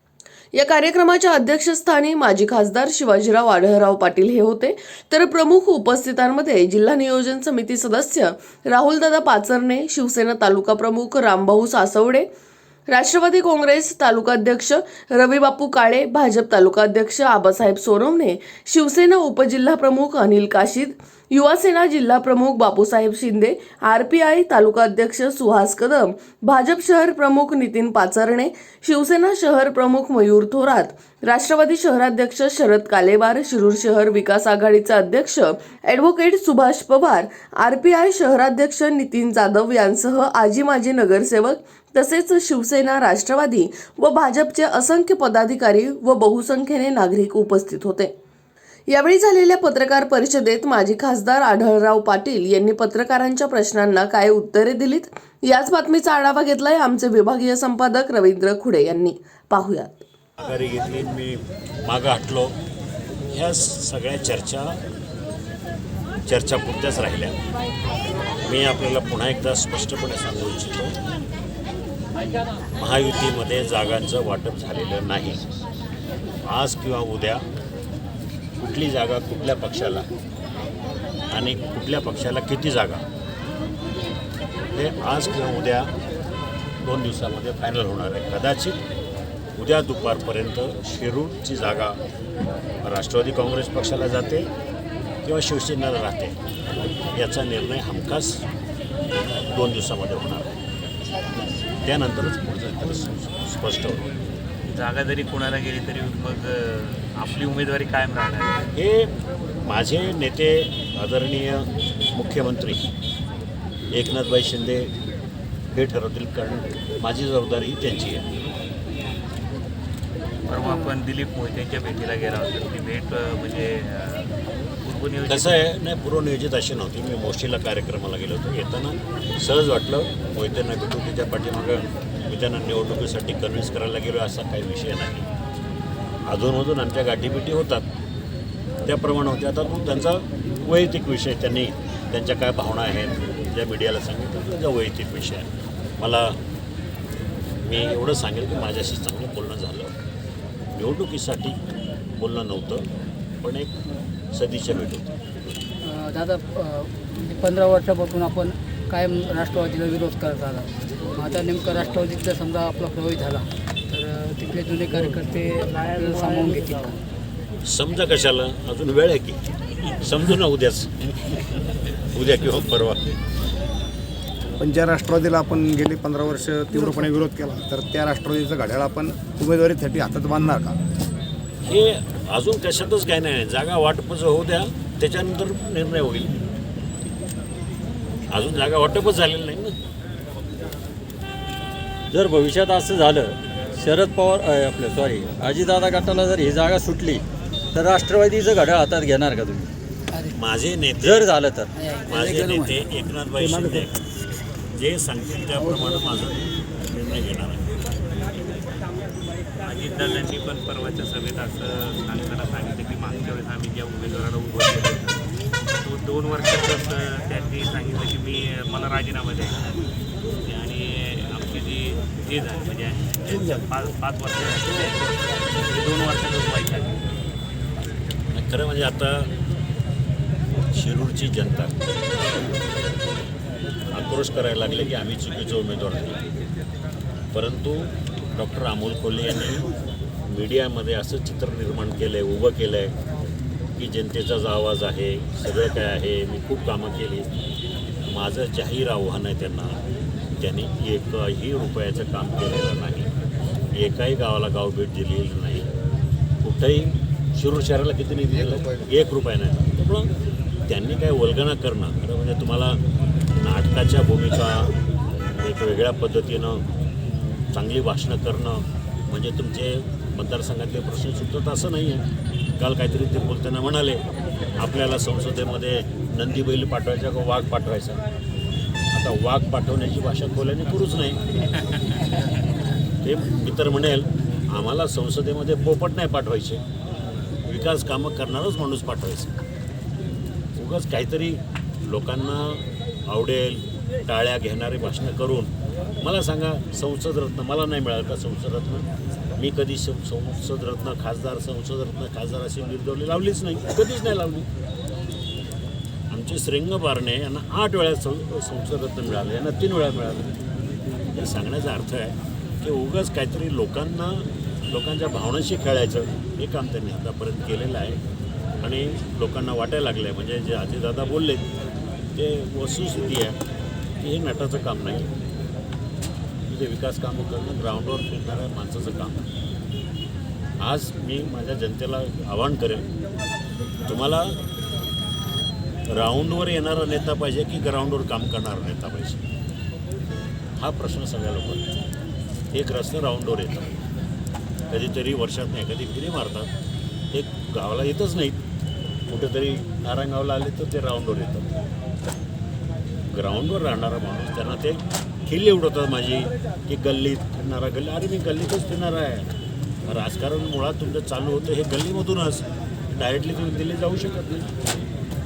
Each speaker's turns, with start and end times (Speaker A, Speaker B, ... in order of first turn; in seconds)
Speaker A: 0.5-12.3, 12.9-48.1, 48.9-60.1
Speaker B: 60.4-62.6, 63.3-64.8, 66.3-67.3, 68.5-71.0, 72.8-75.4, 76.5-77.5, 78.6-80.1, 81.3-83.0, 84.7-85.9, 86.8-88.8, 89.6-92.0, 92.8-94.5, 95.2-96.4, 97.2-98.5, 99.5-100.6, 101.8-104.0, 108.7-109.1, 109.7-112.9, 113.9-114.9, 115.7-118.2, 125.3-135.3, 136.3-137.9, 138.8-146.4, 147.7-149.9, 150.7-151.6, 152.2-152.8, 153.4-153.8, 154.3-155.1, 167.7-169.4, 170.0-171.0, 172.1-173.1, 181.7-186.3, 188.3-189.8, 200.3-201.1, 202.1-203.9, 204.8-207.7, 228.3-229.3, 230.7-231.8, 233.9-236.2, 237.3-239.7, 240.3-242.9, 243.8-247.3, 248.1-249.8, 250.4-253.1, 253.7-255.7, 256.4-260.1, 260.7-262.8, 263.4-264.8, 265.4-272.1, 272.6-274.0, 274.6-278.0, 278.9-281.2, 283.0-286.6, 287.4-289.3, 290.6-304.5, 306.1-310.4, 311.1-318.0, 318.6-321.5, 322.1-323.4, 324.0-325.1, 326.5-329.2, 330.6-332.9, 333.9-334.4, 335.9-339.2, 340.6-341.7, 342.5-343.8, 344.7-346.5, 347.1-348.4, 349.1-351.5, 353.1-359.3, 359.9-364.5
Speaker C: 104.7-108.6, 120.5-125.6, 209.6-215.1, 215.8-219.7, 220.5-225.1, 225.7-227.1
Speaker D: 120.7-120.9, 155.8-167.0, 201.7-202.7
Speaker E: 174.6-180.8, 203.4-203.9
Speaker F: 192.1-197.2, 197.7-199.7, 201.0-201.7